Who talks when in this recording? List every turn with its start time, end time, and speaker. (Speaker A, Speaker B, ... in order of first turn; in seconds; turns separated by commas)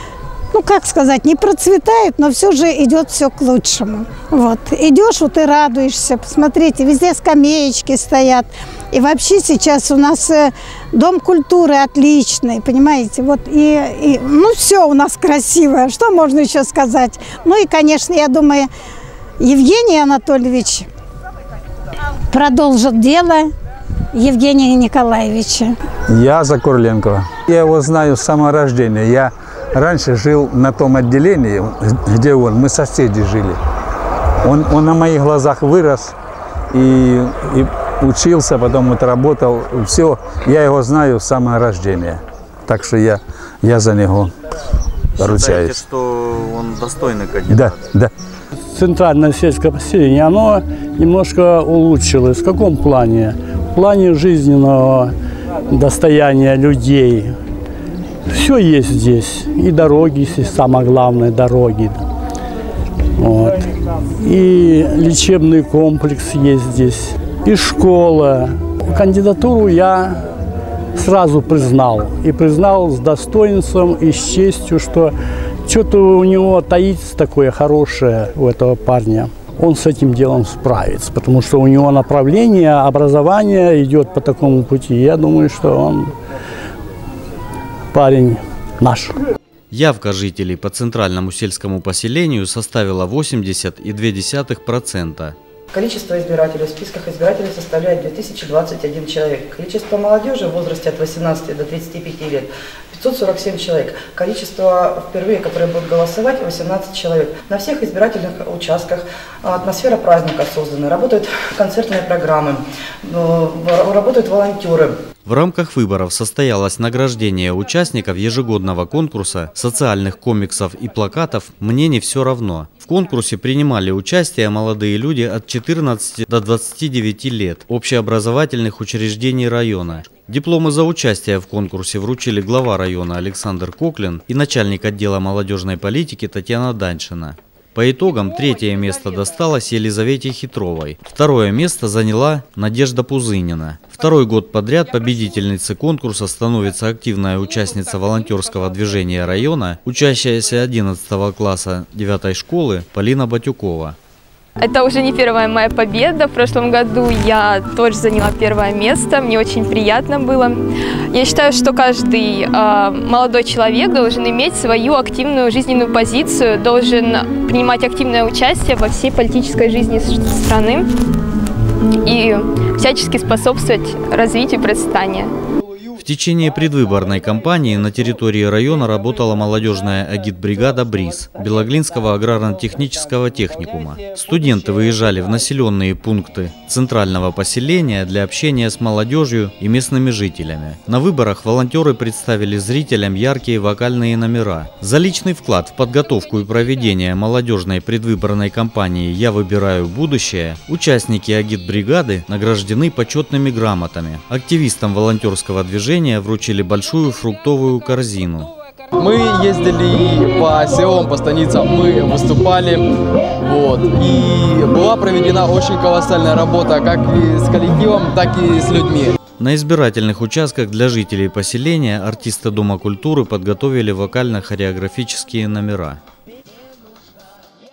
Speaker A: 0.5-18.7, Speaker A: 19.4-20.9, Speaker A: 22.3-23.5, Speaker A: 24.1-25.8, Speaker B: 26.1-33.6, Speaker B: 34.4-36.1, Speaker B: 36.7-44.3, Speaker C: 45.2-47.9, Speaker B: 45.2-45.8, Speaker B: 47.5-48.1, Speaker D: 48.7-55.1, Speaker D: 55.7-57.3, Speaker D: 58.3-62.0, Speaker D: 63.2-70.3, Speaker D: 71.0-75.1, Speaker D: 75.7-86.1, Speaker D: 87.9-89.1, Speaker C: 89.7-95.4, Speaker E: 95.7-115.0, Speaker C: 115.2-154.0, Speaker F: 154.6-170.9, Speaker F: 172.0-175.3, Speaker C: 176.0-208.5, Speaker G: 209.0-219.2, Speaker C: 219.4-226.0